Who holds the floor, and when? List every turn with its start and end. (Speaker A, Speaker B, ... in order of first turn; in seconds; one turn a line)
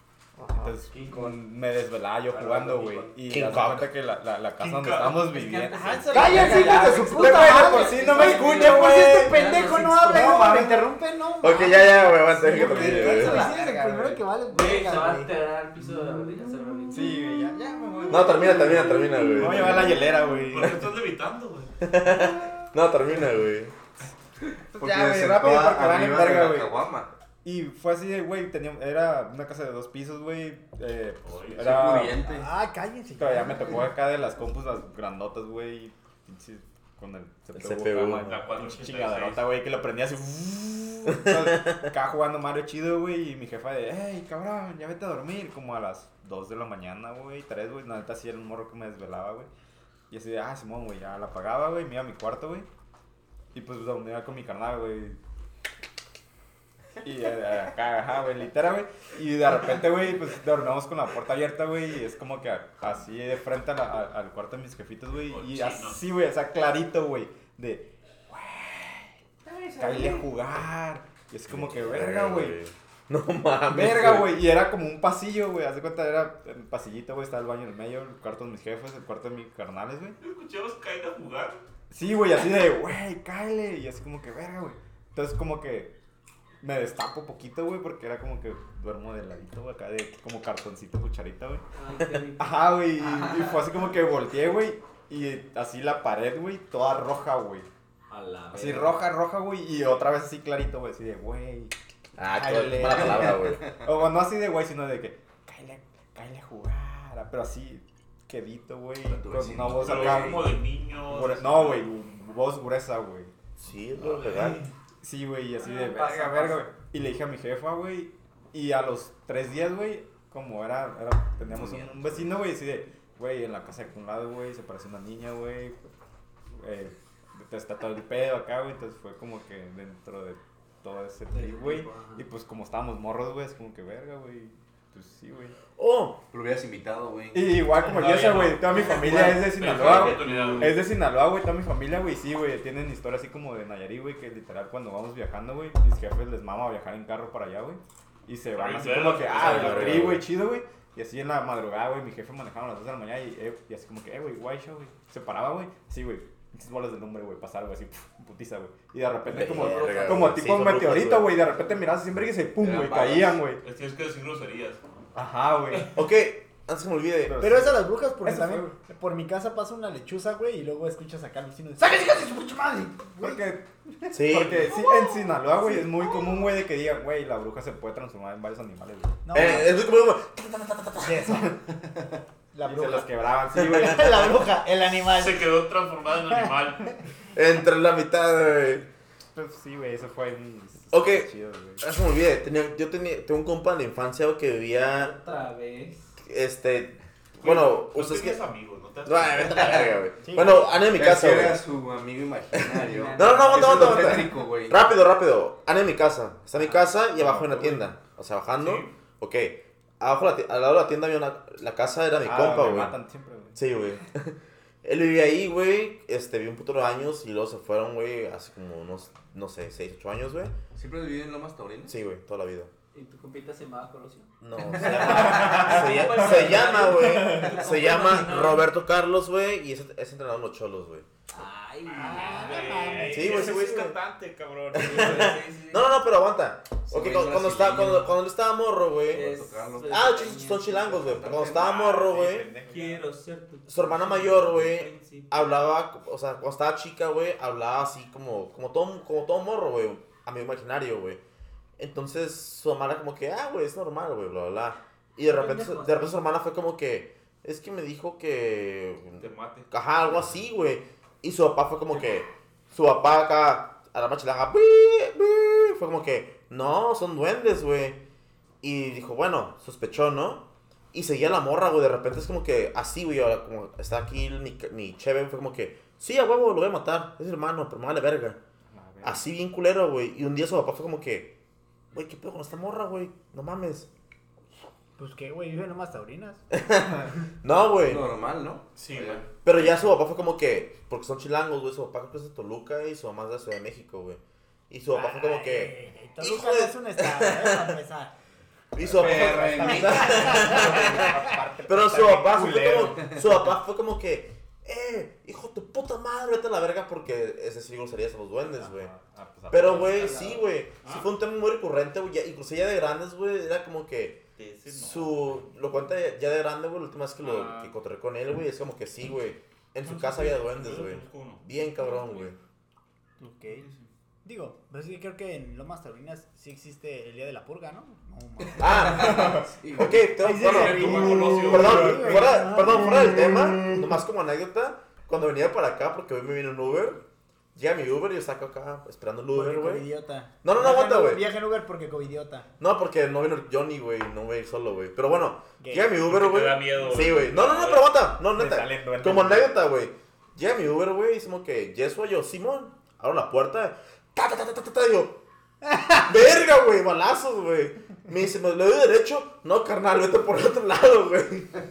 Speaker A: 0.5-10.8
Speaker B: 0.7-1.4
Speaker B: 2.2-3.5
Speaker C: 3.3-3.9
Speaker D: 4.6-5.3
Speaker E: 5.2-10.7
Speaker F: 6.1-15.3
Speaker C: 11.4-13.5
Speaker A: 12.4-14.2
Speaker E: 13.2-13.5
Speaker E: 14.5-17.1
Speaker A: 16.9-20.9
Speaker C: 18.1-20.0
Speaker B: 19.4-19.9
Speaker D: 20.5-21.7
Speaker C: 21.8-23.7
Speaker A: 24.8-26.8
Speaker B: 24.8-27.1
Speaker A: 27.4-32.2
Speaker D: 31.2-32.1
Speaker B: 31.6-32.5
Speaker F: 32.2-33.9
Speaker A: 33.2-49.5
Speaker C: 37.5-38.3
Speaker D: 38.2-39.5
Speaker C: 41.1-41.8
Speaker A: 50.1-52.7
Speaker A: 53.5-55.2
Speaker A: 57.0-69.1
Speaker D: 65.2-66.0
Speaker E: 69.4-70.3
Speaker A: 69.8-72.6
Speaker C: 71.5-74.4
Speaker A: 73.7-80.2
Speaker D: 80.2-81.6
Speaker A: 81.9-85.9
Speaker A: 86.6-91.6
Speaker E: 91.7-93.6
Speaker A: 92.4-97.7
Speaker E: 98.1-99.0
Speaker A: 98.5-101.7
Speaker C: 102.2-103.7
Speaker A: 102.3-113.3
Speaker B: 102.8-103.8
Speaker B: 109.0-110.5
Speaker D: 109.6-111.9
Speaker C: 113.6-114.6
Speaker A: 115.0-125.8
Speaker E: 115.6-116.7
Speaker B: 121.5-122.3
Speaker A: 126.5-135.6
Speaker E: 131.3-132.2
Speaker C: 135.8-136.2
Speaker B: 136.3-137.8
Speaker A: 137.3-163.6
Speaker D: 137.8-140.8
Speaker B: 138.9-140.8
Speaker D: 148.5-150.2
Speaker C: 149.2-150.3
Speaker C: 159.3-161.4
Speaker F: 159.8-160.1
Speaker B: 162.6-163.4
Speaker D: 163.6-164.8
Speaker A: 165.1-166.0
Speaker C: 165.9-167.4
Speaker A: 167.3-168.7
Speaker F: 167.4-173.5
Speaker A: 173.2-179.7
Speaker F: 174.0-176.5
Speaker C: 174.1-174.7
Speaker F: 179.2-179.8
Speaker C: 179.3-181.5
Speaker F: 181.0-181.6
Speaker F: 182.5-185.5
Speaker A: 182.6-184.4
Speaker C: 183.5-184.3
Speaker D: 185.1-186.9
Speaker C: 187.3-188.9
Speaker A: 189.3-191.8
Speaker C: 190.9-191.3
Speaker C: 191.8-195.1
Speaker E: 194.9-196.1
Speaker C: 196.2-198.4
Speaker D: 197.4-199.9
Speaker C: 199.0-201.6
Speaker F: 200.2-200.7
Speaker B: 200.9-204.8
Speaker C: 202.5-212.9
Speaker E: 202.8-204.2
Speaker A: 207.2-207.8
Speaker D: 208.5-208.9
Speaker A: 212.2-213.7
Speaker C: 213.6-220.5
Speaker B: 220.7-222.0
Speaker C: 221.8-222.7
Speaker E: 222.9-224.3
Speaker C: 224.4-231.1
Speaker E: 224.9-228.7
Speaker A: 225.1-227.7
Speaker E: 231.3-233.4
Speaker F: 231.9-233.2
Speaker D: 232.0-235.4
Speaker A: 232.9-233.3
Speaker C: 233.1-234.0
Speaker C: 234.7-242.5
Speaker E: 234.8-235.9
Speaker B: 236.9-238.2
Speaker B: 239.0-241.8
Speaker E: 239.1-241.4
Speaker A: 241.4-243.1
Speaker D: 241.6-242.0
Speaker E: 242.7-245.5
Speaker C: 243.7-251.2
Speaker C: 251.8-268.0
Speaker E: 255.2-256.2
Speaker D: 259.2-259.7
Speaker C: 268.6-278.4
Speaker A: 278.7-279.2
Speaker C: 279.0-281.3
Speaker C: 281.9-283.9
Speaker F: 285.0-286.4
Speaker C: 286.5-288.1
Speaker B: 287.7-289.2
Speaker D: 288.8-289.3
Speaker C: 289.4-297.8
Speaker F: 294.9-298.1
Speaker C: 298.7-308.9
Speaker B: 298.9-300.5
Speaker A: 299.1-303.2
Speaker F: 299.6-301.6
Speaker A: 308.5-310.1
Speaker C: 309.5-322.4
Speaker E: 309.6-310.4
Speaker D: 314.4-315.4
Speaker D: 317.2-317.7
Speaker D: 319.8-321.4
Speaker F: 323.2-323.6
Speaker D: 323.5-323.9
Speaker F: 324.2-329.3
Speaker C: 328.6-337.0
Speaker B: 328.6-330.0
Speaker A: 329.2-329.4
Speaker F: 330.0-333.3
Speaker D: 330.2-332.3
Speaker A: 331.5-332.1
Speaker C: 337.5-339.9
Speaker F: 339.3-342.5
Speaker C: 340.4-341.2
Speaker C: 342.6-355.2
Speaker F: 345.6-346.0
Speaker D: 346.0-347.9
Speaker A: 348.3-349.5
Speaker F: 355.6-356.1
Speaker C: 356.1-361.5